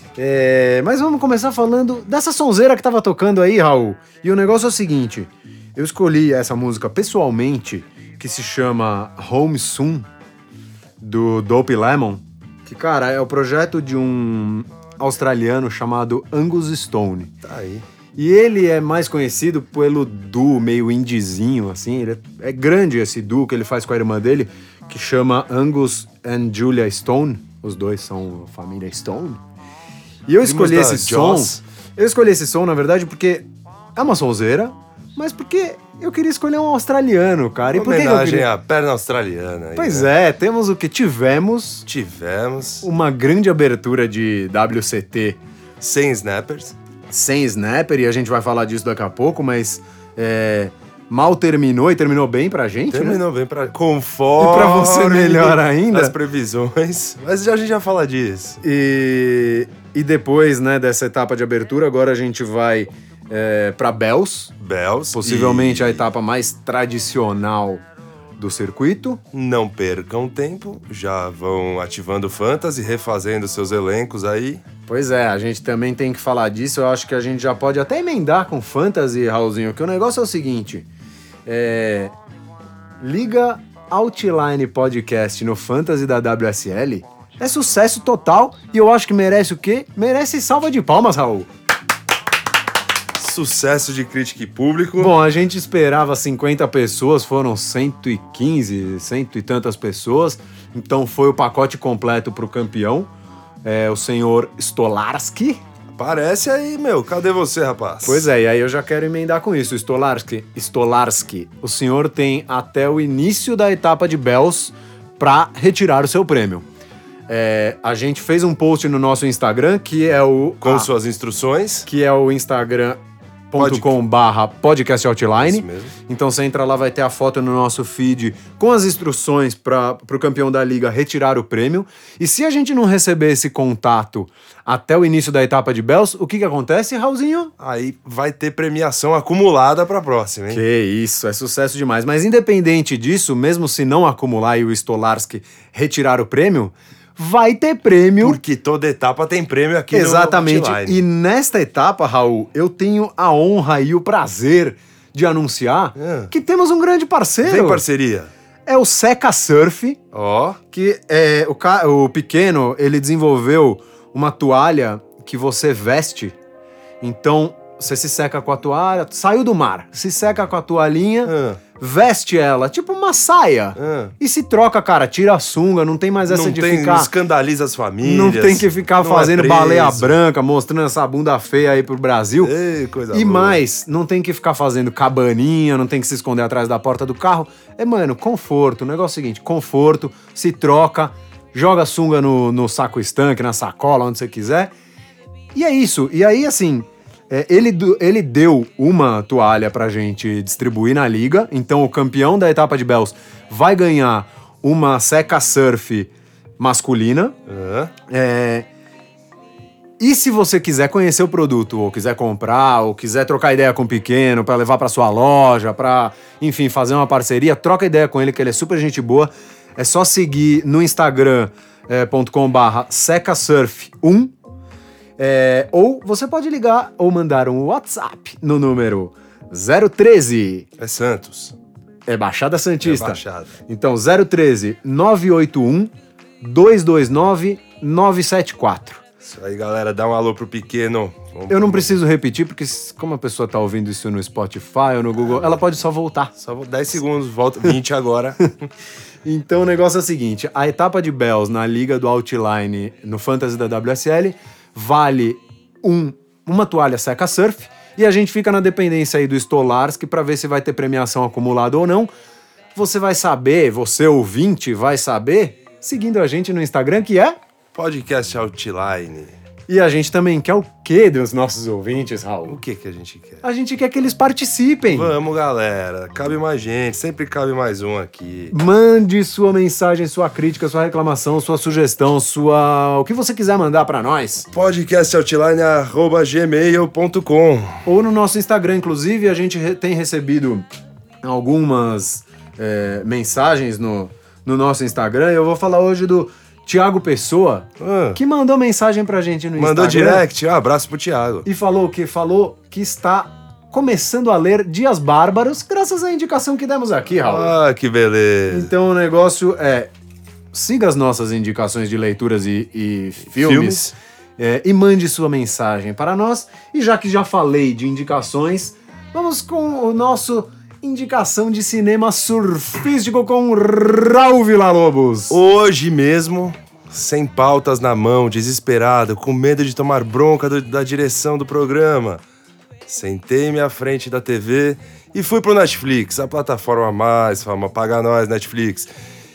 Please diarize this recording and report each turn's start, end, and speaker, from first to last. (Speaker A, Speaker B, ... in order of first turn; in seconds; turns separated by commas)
Speaker A: 0.2-10.1, Speaker A: 11.0-17.4, Speaker B: 17.4-17.9, Speaker A: 18.2-29.4, Speaker A: 30.3-38.5, Speaker B: 30.4-31.6, Speaker B: 37.7-40.1, Speaker A: 39.8-41.9, Speaker B: 41.9-42.9, Speaker A: 42.8-45.4, Speaker B: 45.8-46.8, Speaker A: 47.1-53.2, Speaker B: 52.9-58.6, Speaker A: 54.4-56.1, Speaker A: 58.6-64.5, Speaker B: 64.6-66.1, Speaker A: 65.1-67.8, Speaker A: 68.4-69.2, Speaker B: 69.3-74.6, Speaker A: 74.9-80.9, Speaker A: 81.5-82.1, Speaker A: 83.0-91.5, Speaker B: 93.2-95.1, Speaker A: 95.0-103.1, Speaker A: 103.6-105.6, Speaker B: 105.9-108.3, Speaker A: 108.0-116.7, Speaker A: 117.3-120.9, Speaker B: 120.6-121.9, Speaker A: 121.9-123.0, Speaker A: 123.5-137.5, Speaker B: 123.6-124.0, Speaker B: 125.4-126.0, Speaker B: 137.6-140.6, Speaker A: 140.5-148.4, Speaker B: 148.2-151.0, Speaker A: 149.9-157.8, Speaker B: 156.0-156.3, Speaker B: 157.4-158.3, Speaker A: 158.7-160.0, Speaker B: 160.1-160.6, Speaker A: 160.7-166.4, Speaker A: 167.0-177.1, Speaker B: 171.2-171.6, Speaker B: 173.8-174.2, Speaker B: 176.2-180.2, Speaker A: 178.0-182.5, Speaker B: 182.4-183.6, Speaker A: 183.1-194.7, Speaker A: 195.6-207.4, Speaker B: 207.5-207.9, Speaker A: 208.1-208.7, Speaker A: 210.0-224.3, Speaker A: 225.2-230.7, Speaker B: 230.8-231.6, Speaker A: 232.1-239.0, Speaker B: 232.8-233.6, Speaker B: 239.2-242.0, Speaker A: 241.5-246.3, Speaker B: 246.4-248.7, Speaker A: 249.2-262.1, Speaker A: 262.8-267.4, Speaker B: 267.7-269.4, Speaker A: 269.7-272.6, Speaker B: 272.5-273.4, Speaker A: 273.4-275.1, Speaker B: 274.9-278.6, Speaker A: 278.5-284.5, Speaker B: 284.5-287.8, Speaker A: 287.9-290.7, Speaker A: 291.2-300.2, Speaker B: 297.8-298.2, Speaker B: 299.6-301.5, Speaker A: 301.4-307.5, Speaker B: 307.1-308.7, Speaker A: 308.5-309.9, Speaker A: 310.5-313.9, Speaker B: 313.4-313.9, Speaker A: 314.4-325.4, Speaker B: 325.3-332.2, Speaker B: 332.9-338.9